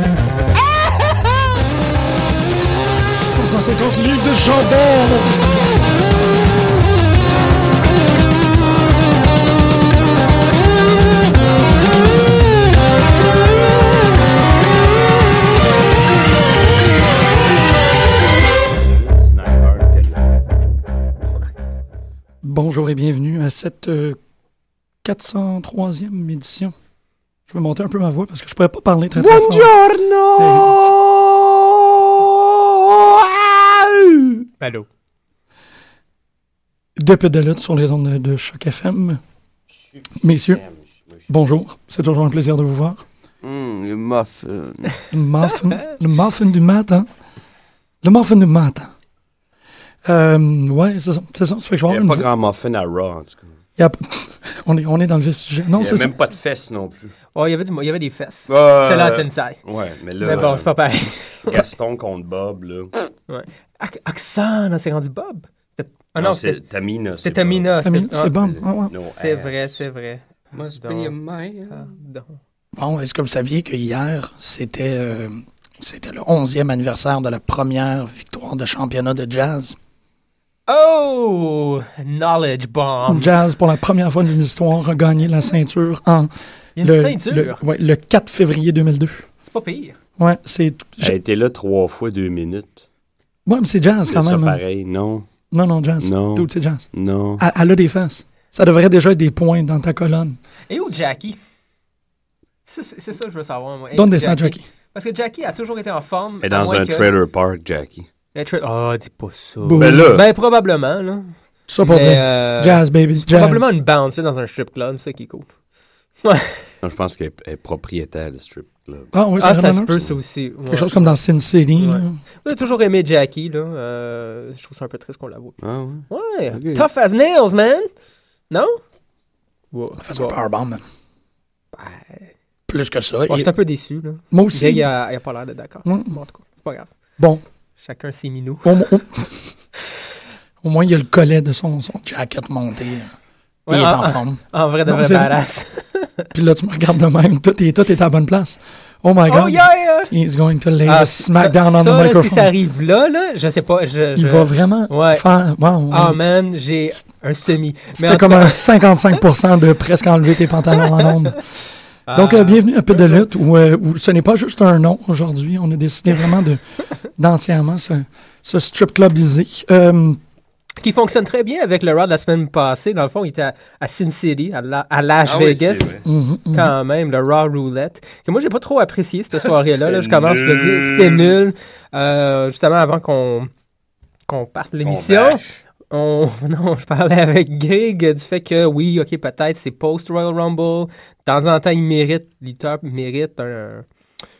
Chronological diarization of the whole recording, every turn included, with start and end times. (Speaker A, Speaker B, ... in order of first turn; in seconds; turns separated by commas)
Speaker A: 3.3-5.5, Speaker B: 18.7-20.3, Speaker A: 22.4-24.2, Speaker A: 25.0-26.7, Speaker A: 27.5-29.7, Speaker B: 29.2-34.4, Speaker A: 30.4-30.9, Speaker C: 34.6-34.9, Speaker A: 37.0-39.2, Speaker B: 40.0-41.3, Speaker A: 40.2-40.6, Speaker A: 41.3-43.0, Speaker B: 43.4-45.0, Speaker A: 45.1-47.1, Speaker A: 48.0-48.9, Speaker A: 50.0-52.3, Speaker B: 51.9-53.5, Speaker A: 53.8-56.1, Speaker B: 55.8-57.1, Speaker C: 57.4-59.6, Speaker B: 58.5-60.7, Speaker C: 60.2-61.5, Speaker B: 61.4-62.9, Speaker C: 63.3-66.6, Speaker B: 66.2-67.7, Speaker C: 67.2-68.3, Speaker A: 67.8-68.9, Speaker B: 68.3-69.8, Speaker C: 69.2-71.1, Speaker B: 70.5-71.9, Speaker C: 71.7-72.4, Speaker A: 72.8-79.8, Speaker C: 80.7-83.3, Speaker A: 83.1-89.2, Speaker C: 86.8-87.6, Speaker C: 89.5-90.0, Speaker A: 90.2-91.2, Speaker B: 91.0-92.8, Speaker A: 93.5-94.6, Speaker B: 94.1-95.3, Speaker A: 95.5-96.9, Speaker B: 96.0-97.5, Speaker A: 97.4-100.4, Speaker C: 100.7-101.4, Speaker C: 102.7-107.1, Speaker A: 104.0-104.7, Speaker B: 106.4-108.1, Speaker C: 108.3-115.5, Speaker A: 109.6-110.1, Speaker B: 109.8-110.3, Speaker A: 111.7-113.7, Speaker C: 116.2-116.6, Speaker B: 116.8-119.1, Speaker A: 119.1-120.0, Speaker C: 119.4-121.2, Speaker A: 120.7-122.5, Speaker C: 121.8-125.5, Speaker B: 125.6-126.9, Speaker C: 126.1-127.9, Speaker C: 128.5-128.8, Speaker C: 129.7-130.4, Speaker A: 130.0-130.8, Speaker C: 131.7-132.3, Speaker A: 132.7-133.5, Speaker C: 133.3-136.9, Speaker A: 134.3-134.9, Speaker A: 135.9-136.2, Speaker C: 137.8-138.8, Speaker A: 138.6-139.3, Speaker A: 140.6-143.1, Speaker C: 143.7-146.3, Speaker A: 143.7-145.3, Speaker A: 146.3-152.5, Speaker C: 149.3-150.1, Speaker C: 150.8-155.2, Speaker A: 154.2-156.2, Speaker C: 155.9-158.9, Speaker A: 158.0-161.4, Speaker C: 160.8-161.1, Speaker C: 162.1-163.3, Speaker A: 162.1-166.6, Speaker A: 167.2-170.2, Speaker C: 170.8-175.9, Speaker B: 175.2-176.1, Speaker A: 176.1-176.7, Speaker C: 176.5-183.5, Speaker B: 179.4-181.4, Speaker C: 184.3-193.9, Speaker B: 184.8-185.6